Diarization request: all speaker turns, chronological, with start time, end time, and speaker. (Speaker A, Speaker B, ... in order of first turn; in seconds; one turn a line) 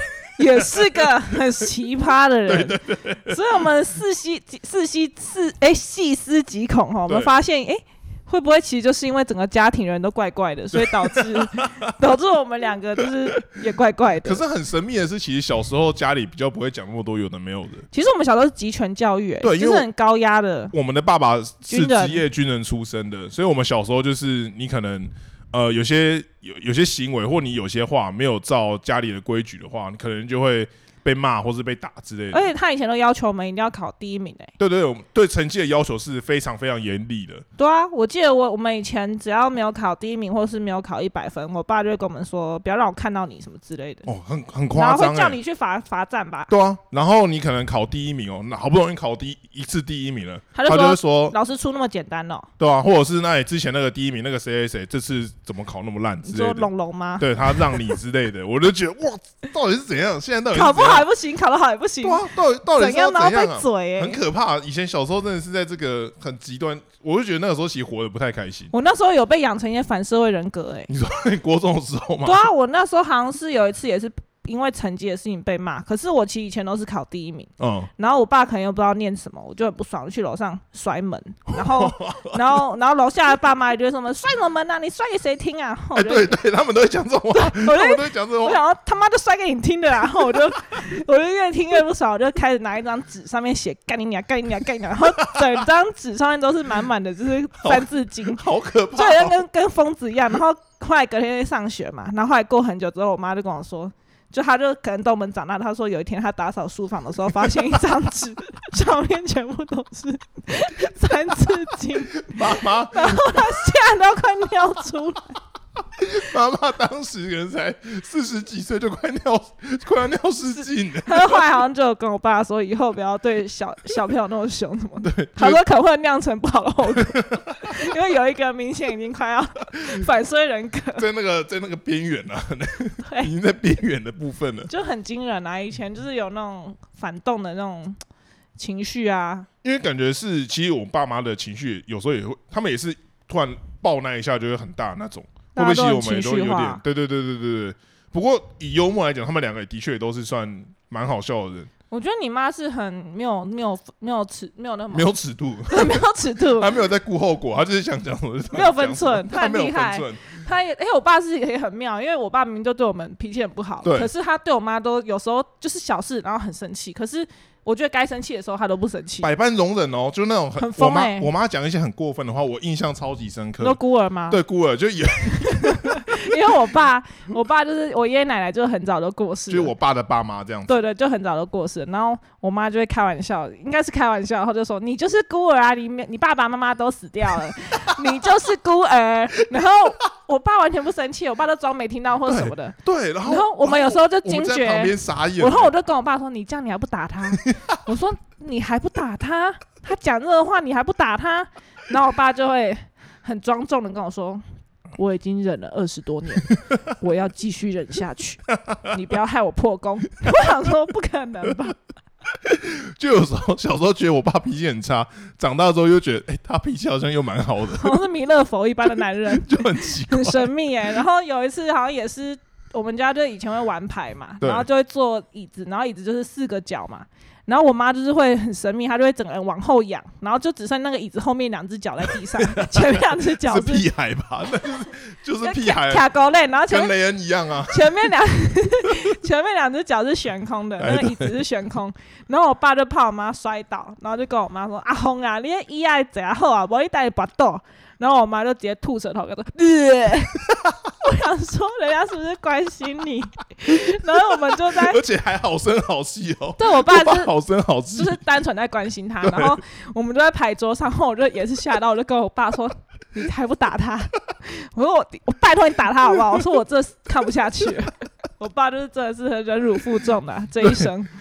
Speaker A: 0.4-14.4
Speaker B: 0.4-1.4
Speaker B: 2.5-3.4
Speaker B: 10.7-11.9
Speaker B: 13.0-13.4
Speaker B: 14.2-17.9
Speaker A: 17.9-20.7
Speaker B: 19.4-19.9
Speaker B: 20.7-32.5
Speaker A: 21.7-22.2
Speaker A: 32.3-34.5
Speaker B: 34.6-37.5
Speaker A: 37.6-44.1
Speaker B: 44.1-45.4
Speaker A: 44.7-46.5
Speaker B: 46.5-51.4
Speaker A: 50.5-52.5
Speaker B: 52.6-56.7
Speaker A: 56.2-57.9
Speaker B: 57.2-61.1
Speaker A: 60.5-64.2
Speaker B: 62.0-68.7
Speaker A: 68.7-70.9
Speaker B: 70.9-72.5
Speaker A: 72.2-86.4
Speaker B: 77.6-77.9
Speaker B: 81.5-82.6
Speaker B: 86.0-88.6
Speaker A: 87.3-115.4
Speaker B: 90.2-90.6
Speaker B: 95.2-95.6
Speaker B: 97.6-99.4
Speaker B: 112.2-113.6
Speaker B: 116.0-121.4
Speaker A: 121.0-131.1
Speaker B: 125.0-125.6
Speaker B: 127.0-127.8
Speaker B: 131.0-134.7
Speaker A: 133.0-133.3
Speaker A: 134.7-138.0
Speaker A: 138.6-139.5
Speaker B: 139.6-151.7
Speaker A: 145.6-146.8
Speaker A: 151.9-155.1
Speaker B: 154.9-160.4
Speaker A: 155.7-156.7
Speaker A: 158.5-169.3
Speaker B: 163.8-164.1
Speaker B: 169.2-173.8
Speaker A: 170.6-171.3
Speaker A: 173.6-174.4
Speaker B: 174.3-176.4
Speaker A: 175.4-179.7
Speaker B: 179.5-180.7
Speaker A: 180.7-204.4
Speaker B: 192.3-195.7
Speaker B: 197.3-197.8
Speaker A: 204.9-211.8
Speaker B: 206.5-206.8
Speaker B: 208.5-208.9
Speaker B: 210.2-210.5
Speaker B: 212.2-218.0
Speaker A: 217.7-233.9
Speaker B: 219.3-220.5
Speaker B: 224.4-224.7
Speaker B: 232.2-236.1
Speaker A: 235.4-236.9
Speaker B: 236.7-238.1
Speaker A: 237.7-250.5
Speaker B: 240.8-241.4
Speaker B: 250.4-250.8
Speaker A: 251.0-255.0
Speaker B: 254.6-258.2
Speaker A: 256.6-257.3
Speaker A: 257.9-271.1
Speaker B: 259.2-259.6
Speaker B: 270.6-270.9